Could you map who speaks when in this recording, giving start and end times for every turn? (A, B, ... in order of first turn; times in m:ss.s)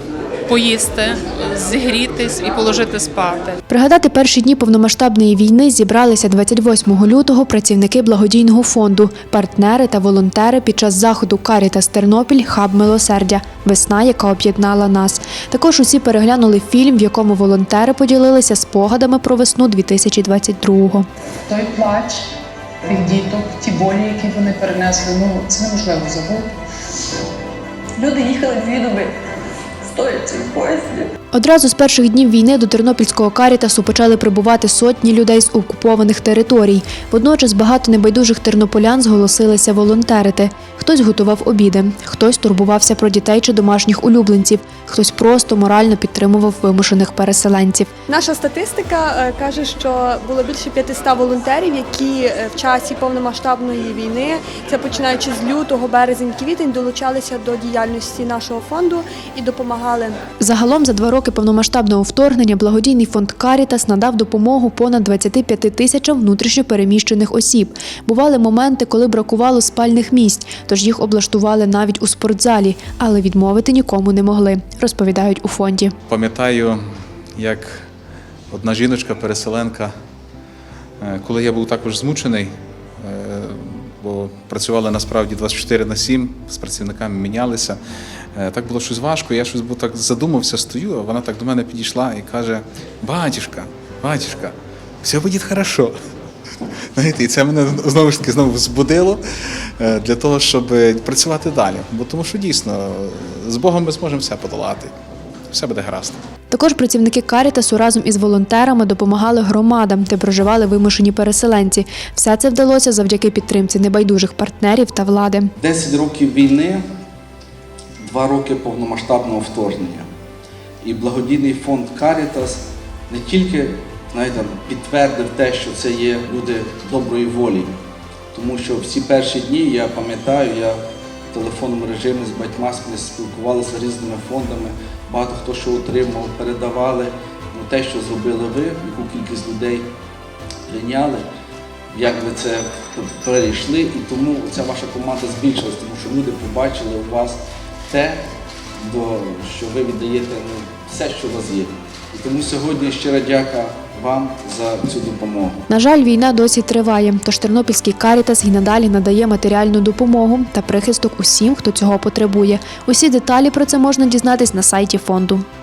0:00.5-0:03.6 A
0:03.7-0:21.0 B
0:21.5-0:22.2 C
0:22.9-0:26.4 C
0:28.0-0:29.1 D
0:29.8-0:31.1 D
0:31.3-0:47.9 B
0:48.1-1:00.2 E
1:00.4-1:15.9 B
1:16.1-1:16.8 F
1:17.4-1:17.9 F
1:18.5-1:19.9 F
1:21.0-1:27.8 F
1:28.4-1:35.9 F
1:36.9-1:39.2 F
1:39.8-1:44.9 F
1:45.5-1:46.2 F
1:46.5-1:55.5 B
1:55.6-1:56.8 G
1:58.1-2:00.0 G
2:00.8-2:07.7 G
2:08.3-2:10.8 G
2:11.3-2:19.9 G
2:20.7-2:21.2 G
2:21.9-2:28.2 G
2:28.8-2:35.6 G
2:35.7-2:45.4 B